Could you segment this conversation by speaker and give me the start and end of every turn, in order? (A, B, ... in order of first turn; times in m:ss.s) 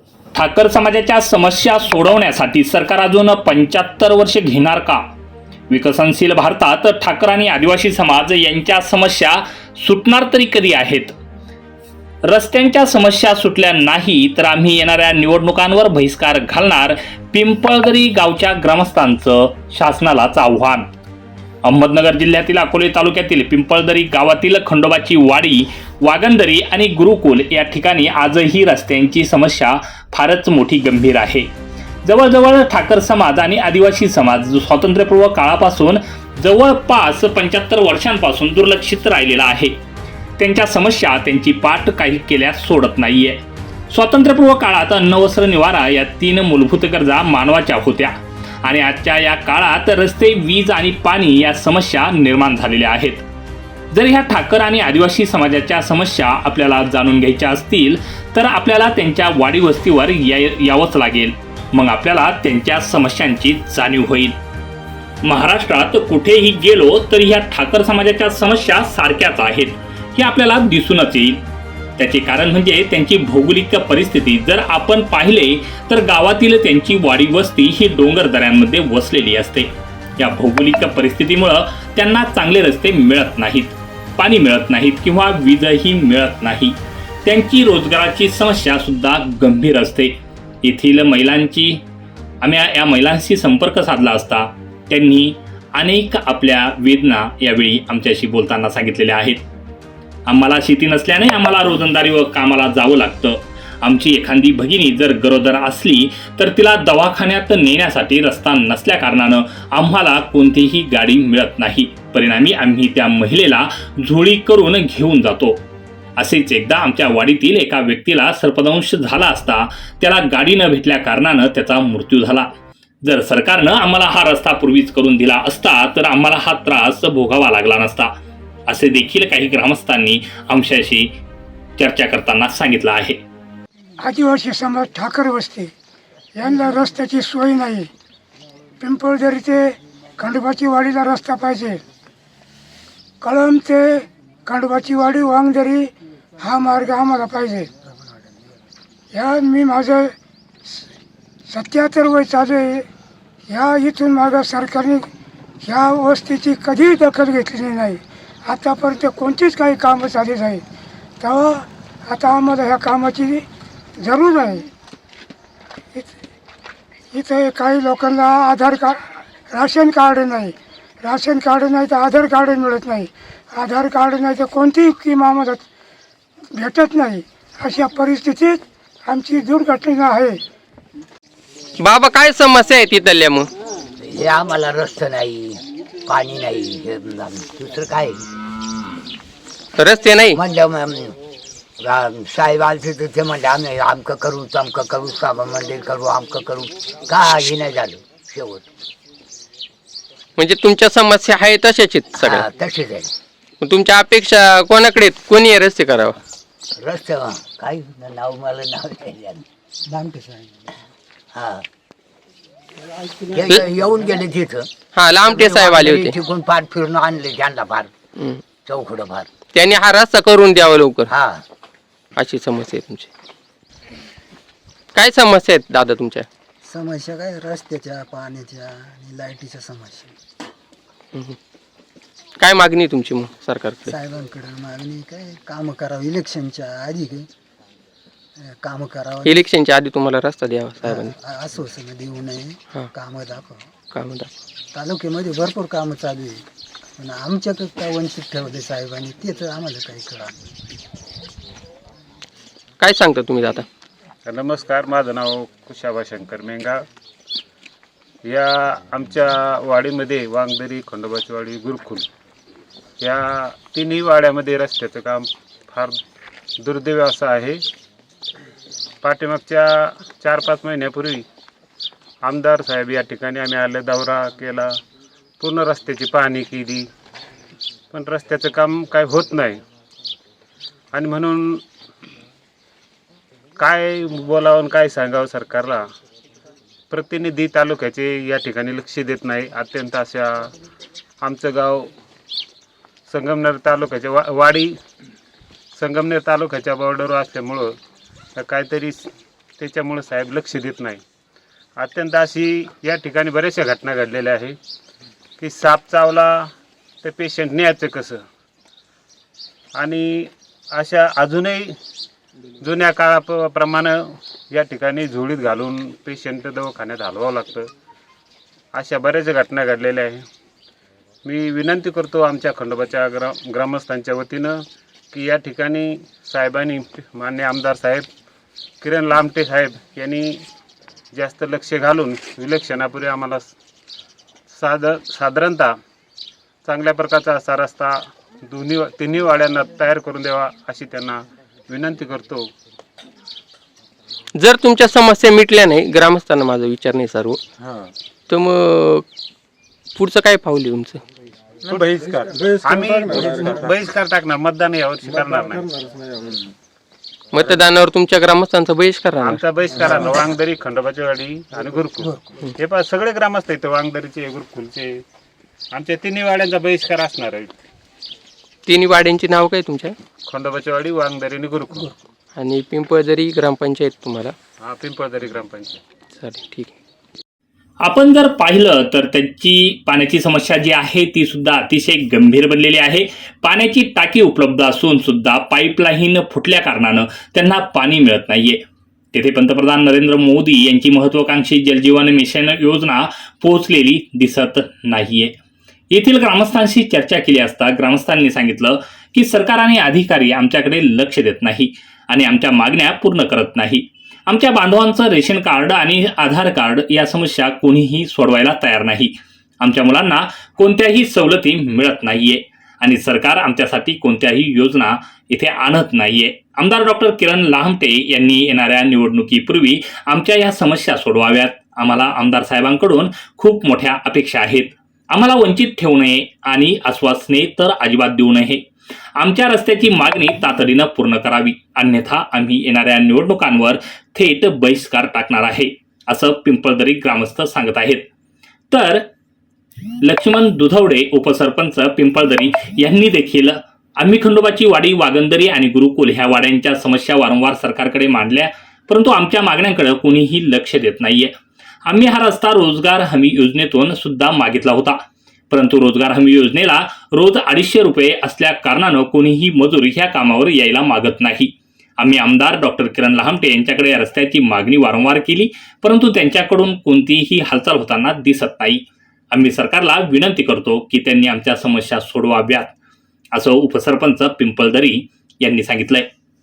0:00.3-0:05.0 A
0:05.7-0:11.2 A
0:12.3-0:20.9 A
0:21.6-0:31.5 A
0:32.0-0:39.8 A
0:40.4-0:53.2 A
0:53.9-1:04.4 A
1:05.2-1:11.4 A
1:12.0-1:31.8 A
1:32.4-1:39.4 A
1:40.3-1:55.6 A
1:56.2-2:02.5 A
2:03.0-2:08.1 A
2:08.7-2:11.2 A
2:11.8-2:13.2 A
2:14.0-2:15.7 B
2:16.4-2:17.9 B
2:18.8-2:21.8 B
2:23.2-2:27.7 B
2:29.1-2:30.1 B
2:31.5-2:32.9 B
2:33.5-2:35.1 B
2:35.6-2:40.6 B
2:41.2-2:43.4 B
2:44.0-2:44.7 B
2:47.1-2:55.6 B
2:56.5-3:00.4 B
3:01.8-3:03.5 C
3:04.0-3:08.2 D
3:09.8-3:10.4 C
3:10.3-3:11.2 D
3:11.8-3:18.6 D
3:20.4-3:22.4 C
3:22.1-3:23.1 D
3:23.6-3:26.2 C
3:26.8-3:29.4 D
3:29.9-3:30.6 E
3:31.3-3:31.6 D
3:33.3-3:37.9 D
3:34.9-3:36.1 C
3:38.6-3:39.3 D
3:39.5-3:41.1 C
3:41.1-3:41.4 D
3:42.2-3:43.1 C
3:45.0-3:46.3 C
3:46.7-3:50.2 E
3:52.4-3:53.9 C
3:53.8-3:57.3 E
3:58.6-3:59.4 E
3:59.2-4:01.1 C
4:00.8-4:03.6 E
4:03.9-4:04.3 C
4:04.7-4:06.4 E
4:07.0-4:10.4 E
4:12.8-4:13.7 C
4:14.3-4:16.8 F
4:18.2-4:22.1 F
4:23.0-4:26.0 F
4:26.6-4:27.6 F
4:29.0-4:31.2 F
4:32.2-4:34.8 F
4:35.4-4:36.9 F
4:37.9-4:39.6 F
4:40.9-4:41.6 F
4:43.6-4:45.8 F
4:46.9-4:50.5 F
4:51.2-4:51.9 F
4:53.1-4:54.8 F
4:55.8-4:57.7 F
4:58.4-4:59.1 F
4:59.6-5:01.0 F
5:01.8-5:04.6 F
5:05.4-5:06.5 F
5:07.0-5:08.2 F
5:09.8-5:11.7 F
5:12.6-5:17.7 F
5:18.7-5:20.2 F
5:21.2-5:24.6 F
5:25.1-5:28.1 F
5:28.8-5:30.4 F
5:31.1-5:33.5 F
5:34.5-5:35.7 F
5:36.6-5:42.5 F
5:44.4-5:47.4 C
5:48.3-5:49.0 C
5:50.0-5:51.0 C
5:51.7-5:55.8 F
5:57.3-5:59.4 C
5:59.2-6:05.0 F
6:05.7-6:07.5 F
6:08.7-6:10.0 C
6:10.3-6:11.9 F
6:12.4-6:14.4 C
6:14.6-6:15.8 F
6:16.2-6:16.8 C
6:17.8-6:28.6 A
6:29.1-6:35.3 A
6:35.9-7:08.7 A
7:09.2-7:18.1 A
7:18.7-7:19.1 A
7:20.0-7:31.3 A
7:31.9-7:35.0 A
7:35.5-7:52.8 A
7:53.3-7:56.1 A